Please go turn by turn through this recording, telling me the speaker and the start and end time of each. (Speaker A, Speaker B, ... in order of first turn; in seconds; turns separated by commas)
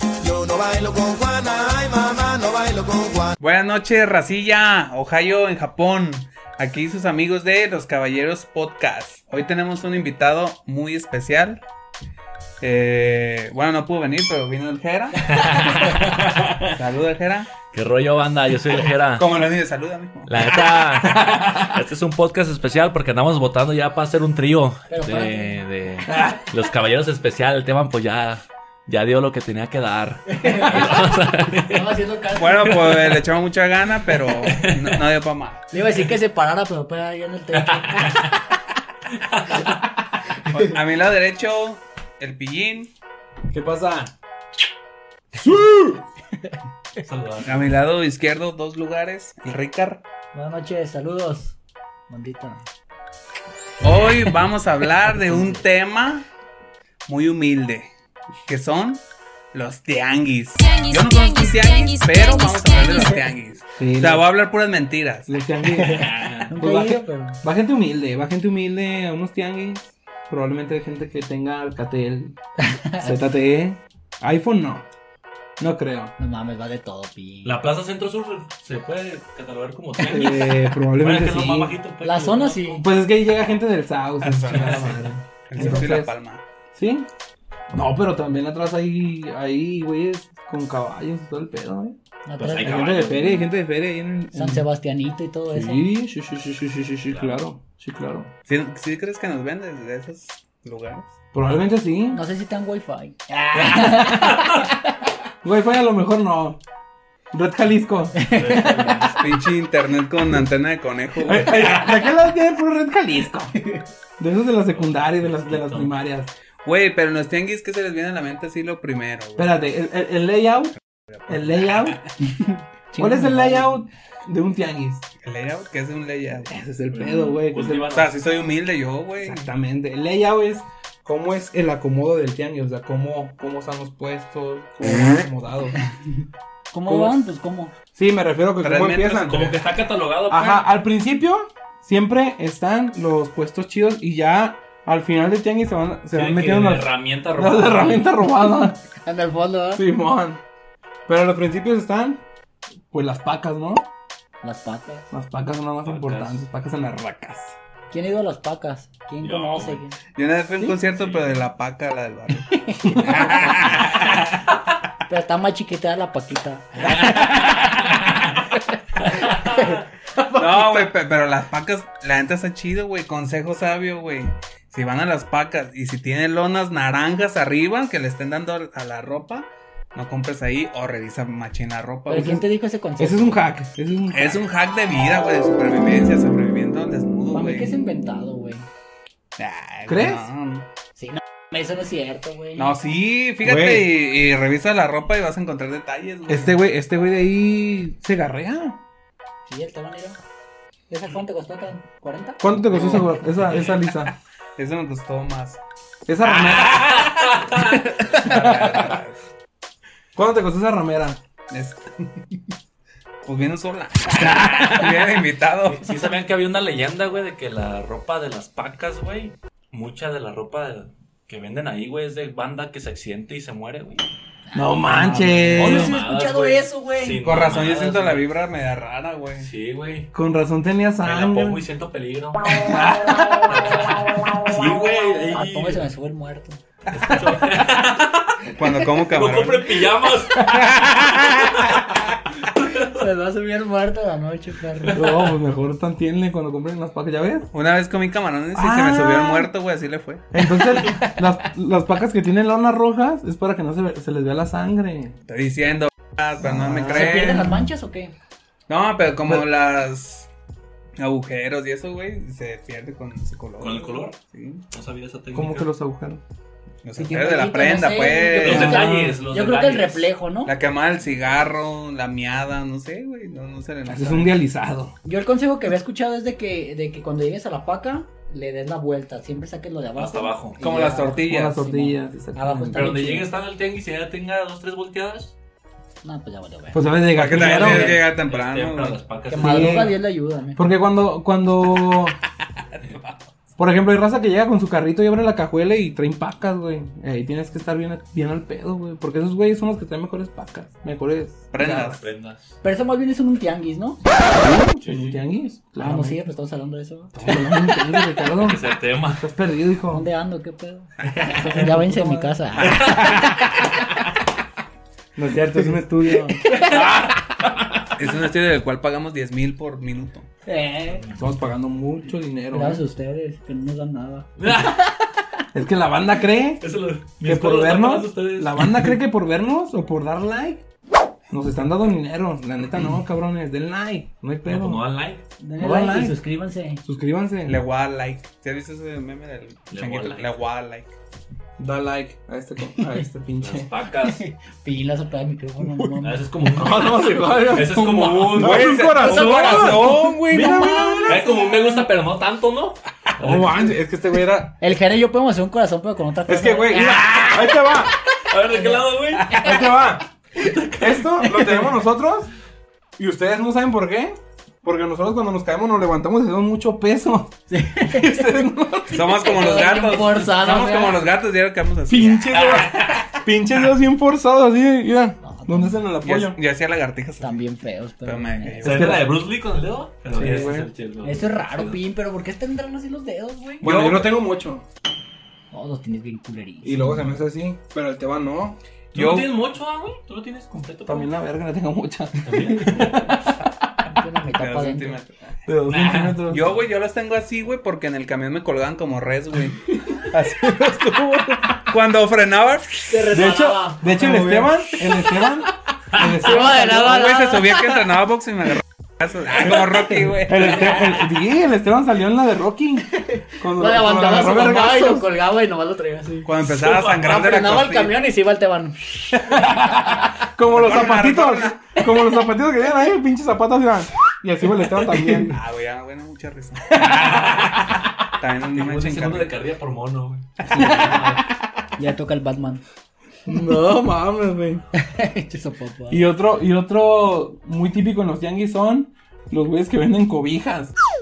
Speaker A: 0.2-3.4, Speaker B: 3.4-11.6, Speaker B: 12.6-17.5, Speaker C: 15.4-16.7, Speaker C: 17.7-19.4, Speaker B: 19.2-20.3, Speaker C: 20.3-31.9, Speaker D: 21.2-21.6, Speaker E: 24.9-25.6, Speaker D: 26.0-26.5, Speaker E: 30.3-33.1, Speaker B: 32.3-35.6, Speaker C: 34.4-35.0, Speaker E: 35.7-38.3, Speaker C: 37.5-38.4, Speaker C: 39.2-39.8, Speaker B: 40.5-42.9, Speaker D: 43.5-44.1, Speaker D: 45.3-46.0, Speaker C: 47.0-47.8, Speaker B: 47.4-50.0, Speaker E: 50.3-51.5, Speaker E: 52.1-52.6, Speaker B: 53.8-56.2, Speaker B: 57.0-57.9, Speaker B: 58.5-59.0, Speaker B: 59.5-65.3, Speaker D: 63.8-64.3, Speaker D: 65.3-72.4, Speaker C: 65.8-66.5, Speaker E: 65.9-67.4, Speaker E: 72.6-73.1, Speaker D: 73.0-74.9, Speaker D: 75.6-76.1, Speaker E: 76.2-77.6, Speaker C: 77.4-82.7, Speaker D: 80.0-81.7, Speaker E: 82.0-82.8, Speaker D: 82.7-86.1, Speaker B: 84.2-86.4, Speaker C: 84.5-85.0, Speaker D: 86.7-87.1, Speaker D: 87.7-92.0, Speaker E: 92.2-93.1, Speaker C: 92.4-93.5, Speaker D: 92.6-94.7, Speaker E: 94.3-95.9, Speaker D: 95.5-98.3, Speaker C: 97.1-97.4, Speaker B: 98.5-101.1, Speaker D: 101.3-102.2, Speaker E: 102.1-104.9, Speaker C: 103.5-104.7, Speaker D: 105.4-106.6, Speaker D: 107.3-109.0, Speaker E: 108.2-108.7, Speaker C: 108.2-109.2, Speaker B: 109.1-112.0, Speaker D: 111.2-113.5, Speaker D: 114.2-116.3, Speaker C: 114.7-115.9, Speaker B: 116.6-119.5, Speaker D: 119.4-120.8, Speaker D: 121.3-122.0, Speaker E: 122.2-123.7, Speaker D: 123.0-125.0, Speaker B: 125.2-126.5, Speaker D: 126.5-128.0, Speaker C: 126.9-128.2, Speaker B: 127.9-129.5, Speaker D: 129.2-135.8, Speaker E: 136.7-137.7, Speaker D: 136.8-137.1, Speaker D: 137.9-139.6, Speaker B: 138.6-139.3, Speaker C: 139.2-140.7, Speaker D: 140.3-148.8, Speaker C: 146.1-148.1, Speaker E: 149.0-149.8, Speaker D: 149.7-150.4, Speaker D: 151.1-152.2, Speaker D: 152.9-153.8, Speaker E: 154.4-155.1, Speaker D: 155.1-157.6, Speaker C: 155.8-156.4, Speaker E: 157.9-160.0, Speaker C: 159.2-159.8, Speaker B: 160.2-164.5, Speaker C: 160.9-161.3, Speaker E: 162.5-163.7, Speaker D: 162.8-163.3, Speaker E: 165.1-168.5, Speaker C: 166.9-168.1, Speaker C: 169.1-169.8, Speaker E: 169.2-169.8, Speaker B: 170.3-182.4, Speaker E: 182.1-183.5, Speaker D: 183.0-184.4, Speaker B: 184.1-187.8, Speaker E: 187.3-188.7, Speaker B: 189.4-190.7, Speaker D: 189.8-190.3, Speaker E: 191.0-192.7, Speaker B: 192.6-196.6, Speaker D: 193.4-193.9, Speaker D: 196.3-198.8, Speaker E: 199.5-200.2, Speaker E: 200.9-202.5, Speaker D: 202.4-204.1, Speaker B: 202.7-203.1, Speaker B: 204.6-205.6, Speaker D: 206.1-207.1, Speaker C: 206.3-207.8, Speaker B: 206.7-207.0, Speaker B: 207.9-209.2, Speaker D: 208.1-208.9, Speaker D: 210.1-211.2, Speaker B: 211.5-212.1, Speaker B: 213.2-215.9, Speaker C: 214.2-214.9, Speaker D: 214.3-214.6, Speaker C: 215.6-224.0, Speaker E: 224.5-227.2, Speaker D: 224.5-225.9, Speaker C: 225.0-228.3, Speaker B: 227.2-229.5, Speaker C: 229.4-230.1, Speaker D: 230.1-231.6, Speaker C: 231.0-235.8, Speaker D: 232.6-233.6, Speaker E: 235.2-236.6, Speaker C: 236.9-240.4, Speaker B: 238.6-239.9, Speaker D: 240.3-240.9, Speaker B: 240.4-241.9, Speaker C: 242.6-243.0, Speaker E: 242.9-245.1, Speaker D: 244.9-247.5, Speaker B: 247.5-250.3, Speaker D: 248.5-249.5, Speaker D: 250.3-255.2, Speaker B: 255.3-257.6, Speaker D: 256.4-257.5, Speaker E: 256.8-258.1, Speaker B: 258.7-260.3, Speaker B: 261.0-264.6, Speaker C: 263.6-264.1, Speaker C: 264.7-265.7, Speaker D: 265.3-266.2, Speaker B: 266.8-268.8, Speaker E: 267.0-270.5, Speaker C: 268.4-270.1, Speaker D: 268.4-269.2, Speaker B: 270.4-274.3, Speaker D: 273.9-274.9, Speaker E: 275.0-283.3, Speaker C: 280.0-280.6, Speaker B: 280.6-281.6, Speaker D: 281.1-282.9, Speaker C: 282.7-285.3, Speaker E: 286.0-287.0, Speaker D: 286.7-288.0, Speaker C: 287.1-289.9, Speaker B: 287.2-289.0, Speaker E: 289.3-290.6, Speaker D: 289.3-290.0, Speaker D: 290.6-292.1, Speaker B: 292.8-293.2, Speaker D: 293.6-301.5, Speaker B: 301.5-302.1, Speaker C: 301.6-302.5, Speaker E: 302.6-304.0, Speaker D: 304.3-306.2, Speaker C: 304.8-305.2, Speaker E: 305.8-307.9, Speaker D: 307.1-308.6, Speaker C: 308.4-309.3, Speaker D: 309.1-310.0, Speaker E: 309.9-313.4, Speaker D: 311.2-312.4, Speaker B: 312.6-313.7, Speaker D: 315.1-316.9, Speaker E: 316.4-317.0, Speaker C: 316.5-317.1, Speaker B: 317.9-320.3, Speaker E: 320.4-321.1, Speaker D: 321.1-322.8, Speaker E: 322.5-325.1, Speaker C: 324.4-324.9, Speaker D: 325.5-326.6, Speaker C: 326.6-328.9, Speaker D: 327.2-330.6, Speaker D: 331.3-334.8, Speaker C: 334.4-335.2, Speaker E: 335.4-336.8, Speaker D: 335.6-336.2, Speaker D: 336.8-337.6, Speaker B: 337.4-340.9, Speaker C: 339.7-340.3, Speaker D: 341.6-343.7, Speaker C: 343.4-344.2, Speaker E: 344.0-346.2, Speaker C: 346.0-348.8, Speaker D: 346.5-351.4, Speaker B: 348.3-351.0, Speaker E: 348.9-351.6, Speaker C: 350.5-353.8, Speaker D: 353.2-354.6, Speaker E: 354.6-357.8, Speaker D: 356.3-357.9, Speaker C: 358.2-359.5, Speaker E: 358.4-359.6, Speaker D: 359.4-360.1, Speaker C: 360.4-361.5, Speaker D: 360.8-362.3, Speaker D: 363.0-369.2, Speaker E: 367.5-368.2, Speaker B: 368.9-372.5, Speaker E: 369.1-371.0, Speaker D: 371.9-376.4, Speaker C: 372.3-373.1, Speaker E: 375.2-375.8, Speaker B: 376.0-377.4, Speaker E: 377.2-378.8, Speaker B: 378.0-379.0, Speaker C: 378.6-381.8, Speaker D: 378.6-379.1, Speaker D: 380.1-380.7, Speaker E: 381.0-383.7, Speaker D: 383.6-384.6, Speaker B: 383.6-384.1, Speaker E: 385.5-387.1, Speaker D: 386.6-389.3, Speaker C: 388.9-391.1, Speaker D: 390.9-393.5, Speaker C: 392.1-393.1, Speaker E: 393.9-395.0, Speaker B: 394.4-395.4, Speaker D: 395.4-396.6, Speaker C: 395.6-396.2, Speaker B: 396.3-403.0, Speaker E: 402.9-405.2, Speaker D: 403.1-407.1, Speaker E: 405.9-407.8, Speaker B: 406.4-411.0, Speaker D: 409.3-415.1, Speaker E: 413.0-420.1, Speaker B: 416.2-418.0, Speaker D: 419.1-425.4, Speaker B: 420.5-421.6, Speaker B: 425.2-429.3, Speaker D: 426.8-427.5, Speaker C: 428.5-431.2, Speaker E: 430.5-431.2, Speaker E: 431.8-432.6, Speaker D: 433.2-434.6, Speaker E: 434.7-436.0, Speaker D: 435.9-440.7